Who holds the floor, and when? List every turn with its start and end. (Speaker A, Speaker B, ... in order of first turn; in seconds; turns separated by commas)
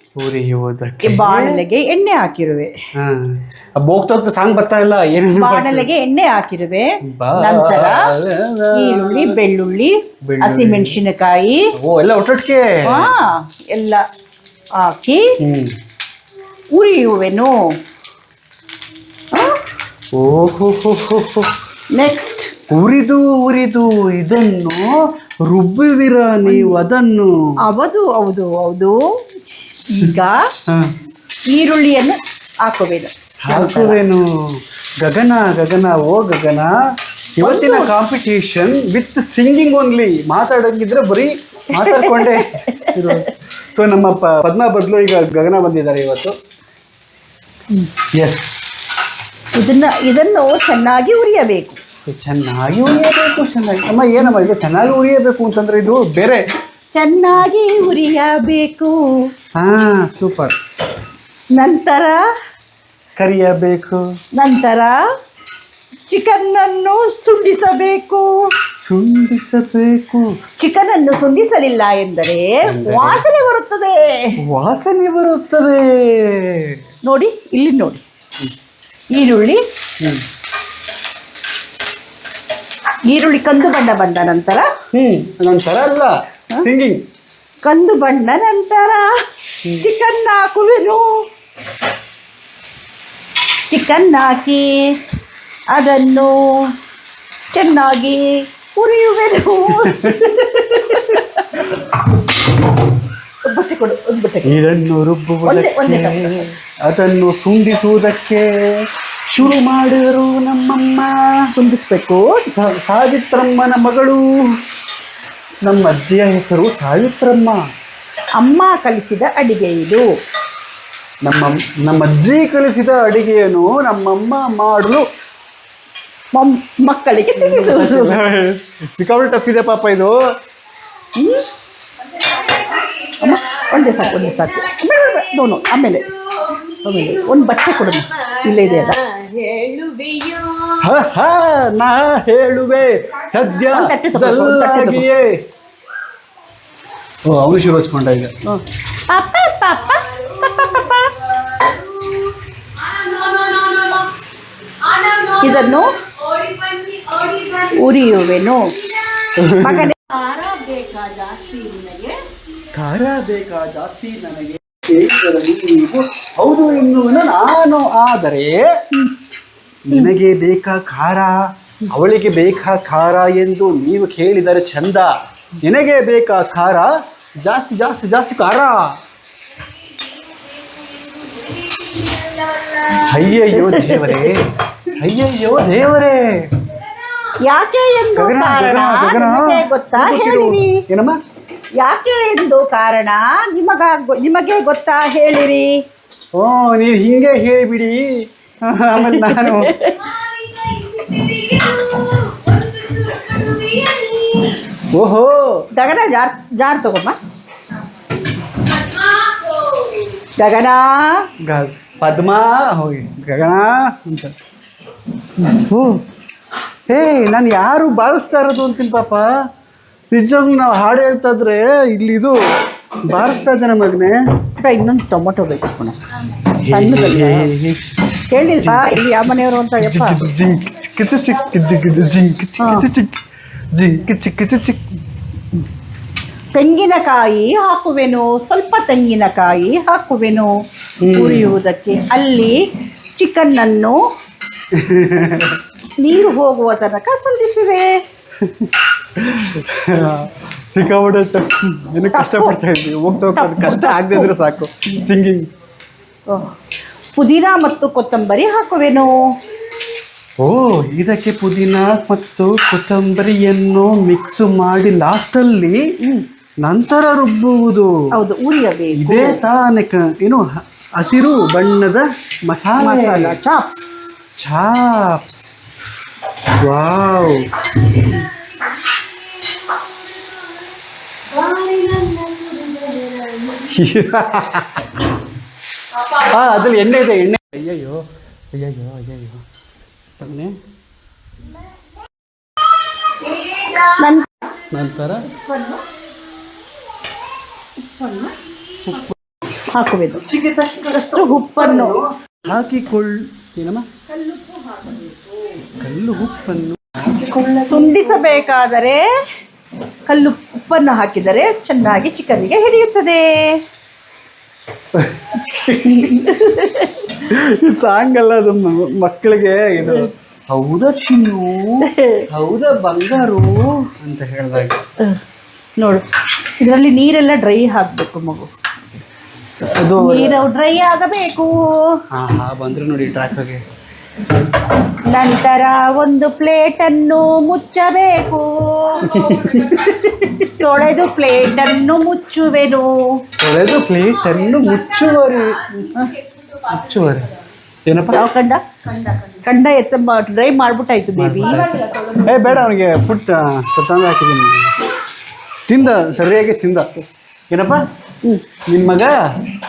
Speaker A: 0.2-1.6, Speaker B: 1.0-2.7, Speaker A: 3.0-5.9, Speaker B: 5.3-8.1, Speaker A: 7.1-9.4, Speaker B: 8.7-11.7, Speaker A: 10.3-11.0, Speaker A: 11.8-13.1, Speaker B: 12.8-14.0, Speaker B: 14.8-15.2, Speaker A: 15.4-15.7, Speaker B: 16.7-17.5, Speaker A: 20.1-21.5, Speaker B: 21.9-22.5, Speaker A: 22.7-24.9, Speaker A: 25.5-27.3, Speaker B: 26.5-26.8, Speaker B: 27.7-29.0, Speaker B: 29.9-30.4, Speaker B: 31.5-34.0, Speaker A: 33.5-34.3, Speaker A: 35.0-36.7, Speaker A: 37.4-46.3, Speaker B: 37.4-37.9, Speaker B: 41.7-43.2, Speaker A: 48.1-48.5, Speaker B: 49.5-51.8, Speaker A: 52.0-56.4, Speaker B: 56.9-59.0, Speaker A: 59.6-60.5, Speaker B: 61.5-62.2, Speaker A: 63.2-64.0, Speaker B: 64.4-65.0, Speaker B: 66.1-68.3, Speaker A: 68.8-70.3, Speaker B: 70.6-74.3, Speaker A: 72.7-73.2, Speaker A: 74.4-76.8, Speaker B: 77.0-78.0, Speaker B: 79.1-79.6, Speaker B: 83.1-84.7, Speaker A: 84.9-87.0, Speaker B: 87.6-89.0, Speaker B: 89.8-91.1, Speaker B: 93.7-94.7, Speaker B: 95.7-96.7, Speaker B: 97.5-101.2, Speaker A: 99.8-101.2, Speaker B: 103.5-104.6, Speaker A: 104.4-108.6, Speaker B: 105.4-106.5, Speaker A: 109.3-111.1, Speaker B: 111.6-112.4, Speaker A: 112.5-114.5, Speaker A: 115.6-117.6, Speaker B: 118.4-120.0, Speaker A: 121.2-125.0, Speaker B: 126.3-128.2, Speaker A: 127.3-130.2, Speaker B: 131.2-131.4, Speaker C: 132.1-140.8, Speaker B: 133.2-136.1, Speaker B: 136.8-139.0, Speaker A: 140.8-145.4, Speaker B: 143.7-145.1, Speaker A: 147.2-148.3, Speaker B: 148.5-151.1, Speaker C: 149.9-154.1, Speaker C: 154.8-159.3, Speaker B: 155.4-155.9, Speaker B: 157.7-158.7, Speaker A: 159.4-159.9, Speaker B: 159.6-162.2, Speaker A: 162.7-168.7, Speaker A: 169.9-175.1, Speaker A: 175.6-179.0, Speaker C: 179.8-183.3, Speaker A: 183.0-184.4, Speaker B: 183.5-184.4, Speaker A: 185.0-186.4, Speaker B: 187.4-190.8, Speaker A: 188.2-191.2, Speaker B: 191.8-195.8, Speaker A: 196.3-199.8, Speaker B: 199.0-200.0, Speaker C: 200.0-204.6, Speaker A: 204.9-205.7, Speaker B: 205.7-207.2, Speaker C: 208.6-210.1, Speaker B: 210.4-211.2, Speaker A: 211.4-214.3, Speaker A: 215.5-215.9, Speaker A: 216.9-219.3, Speaker A: 220.1-222.4, Speaker A: 223.1-224.2, Speaker B: 224.6-225.9, Speaker A: 226.6-227.8, Speaker B: 226.7-227.5, Speaker B: 228.3-230.3, Speaker A: 228.3-229.1, Speaker A: 229.8-233.2, Speaker B: 232.6-232.8, Speaker A: 233.7-234.8, Speaker B: 236.5-240.5, Speaker A: 241.0-241.5, Speaker B: 241.1-242.6, Speaker B: 243.2-244.0, Speaker A: 244.7-245.6, Speaker B: 246.0-247.9, Speaker A: 248.4-255.4, Speaker B: 252.1-252.6, Speaker B: 253.3-254.3, Speaker B: 257.1-259.1, Speaker A: 260.4-265.8, Speaker A: 266.6-267.9, Speaker B: 268.1-269.4, Speaker A: 268.9-270.4, Speaker A: 270.9-273.4, Speaker B: 272.8-274.1, Speaker A: 274.4-275.6, Speaker A: 276.6-277.5, Speaker C: 278.9-280.4, Speaker C: 281.3-283.7, Speaker A: 283.7-285.0, Speaker A: 286.1-289.4, Speaker A: 290.2-290.6, Speaker C: 293.3-293.8, Speaker B: 293.8-294.5, Speaker A: 294.7-295.3, Speaker B: 295.3-295.8, Speaker B: 297.8-298.3, Speaker B: 299.7-300.2, Speaker A: 300.2-303.9, Speaker B: 300.9-302.0, Speaker B: 304.1-305.3, Speaker A: 305.8-308.5, Speaker B: 307.6-309.0, Speaker B: 310.1-313.3, Speaker A: 314.9-316.2, Speaker B: 315.9-317.1, Speaker A: 317.2-324.8, Speaker B: 321.9-322.2, Speaker B: 325.8-326.0, Speaker B: 326.6-328.5, Speaker A: 329.6-330.4, Speaker B: 330.0-332.0, Speaker A: 332.1-333.6, Speaker B: 335.1-339.3, Speaker C: 339.0-339.9, Speaker A: 339.1-339.9, Speaker B: 340.5-342.9, Speaker A: 343.4-345.6, Speaker C: 344.1-347.4, Speaker A: 346.7-347.3, Speaker A: 347.9-348.2, Speaker B: 348.1-348.6, Speaker C: 349.0-349.4, Speaker B: 349.4-351.6, Speaker A: 351.1-354.7, Speaker C: 351.4-352.6, Speaker A: 355.7-357.8, Speaker A: 358.7-359.2